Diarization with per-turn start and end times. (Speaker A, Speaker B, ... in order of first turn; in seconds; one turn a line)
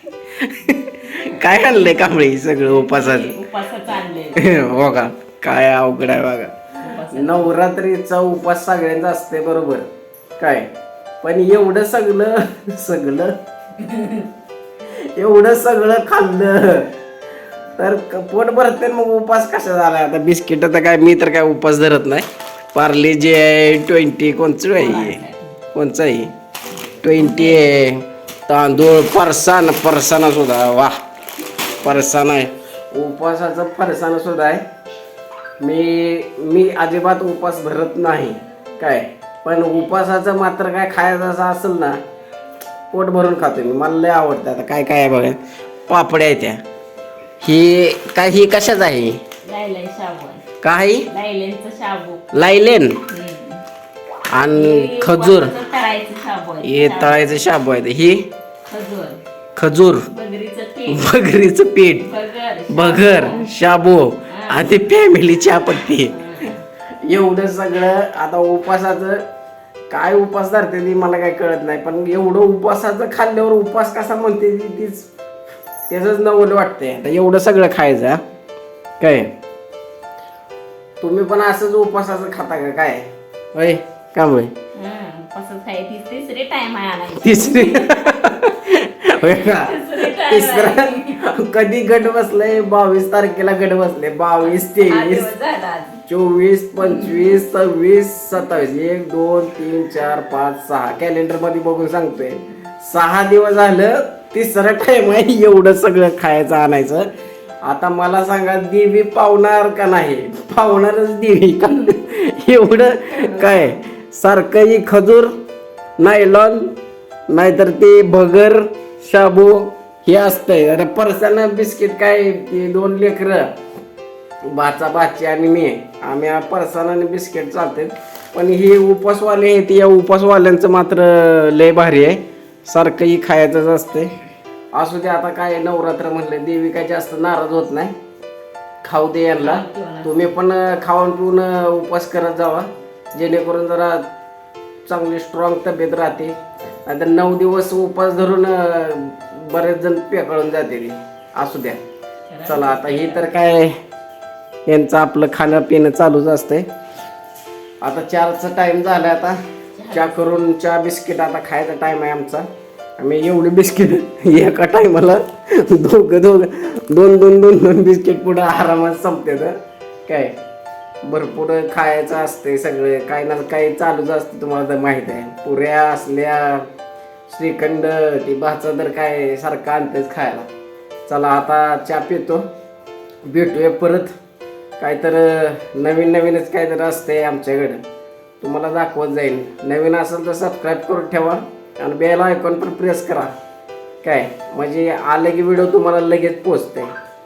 Speaker A: 0.4-3.3
Speaker B: 1.1-4.4
Speaker A: 4.4-6.5
Speaker B: 6.8-7.5
Speaker A: 7.1-9.9
Speaker A: 10.4-10.7
Speaker A: 11.2-13.3
Speaker B: 13.8-14.3
Speaker A: 15.0-16.9
Speaker A: 17.8-25.2
Speaker B: 24.8-25.6
Speaker A: 25.7-26.3
Speaker A: 27.0-31.0
Speaker B: 27.1-27.6
Speaker A: 31.8-34.6
Speaker A: 35.6-42.0
Speaker A: 42.9-46.6
Speaker A: 47.4-49.2
Speaker B: 49.4-50.4
Speaker A: 50.6-51.1
Speaker B: 51.1-52.2
Speaker A: 52.3-53.0
Speaker B: 53.1-53.6
Speaker A: 54.3-55.5
Speaker B: 54.5-57.4
Speaker A: 56.6-58.3
Speaker B: 58.7-59.2
Speaker A: 59.6-60.1
Speaker B: 60.1-61.2
Speaker A: 60.9-62.1
Speaker B: 62.0-63.5
Speaker A: 62.7-66.2
Speaker B: 64.3-64.7
Speaker B: 66.1-66.6
Speaker A: 67.0-69.2
Speaker A: 69.9-75.1
Speaker A: 75.9-78.2
Speaker A: 79.0-79.3
Speaker A: 81.0-84.5
Speaker B: 84.8-88.2
Speaker A: 87.2-95.3
Speaker B: 89.1-91.2
Speaker B: 94.4-96.0
Speaker A: 96.1-107.1
Speaker B: 96.8-97.4
Speaker A: 107.6-115.3
Speaker B: 113.1-113.8
Speaker A: 116.0-116.7
Speaker A: 117.3-123.5
Speaker A: 124.5-134.1
Speaker A: 134.7-137.9
Speaker A: 138.8-144.1
Speaker B: 139.4-140.3
Speaker A: 144.9-151.8
Speaker B: 152.3-153.2
Speaker A: 152.5-153.8
Speaker A: 154.7-156.7
Speaker A: 157.8-159.4
Speaker B: 159.8-160.5
Speaker A: 159.9-162.5
Speaker A: 163.0-169.6
Speaker A: 170.1-170.3
Speaker A: 171.1-176.7
Speaker A: 177.3-180.5
Speaker A: 181.1-182.5
Speaker A: 183.3-184.1
Speaker A: 184.8-187.8
Speaker A: 188.4-193.3
Speaker A: 194.0-196.9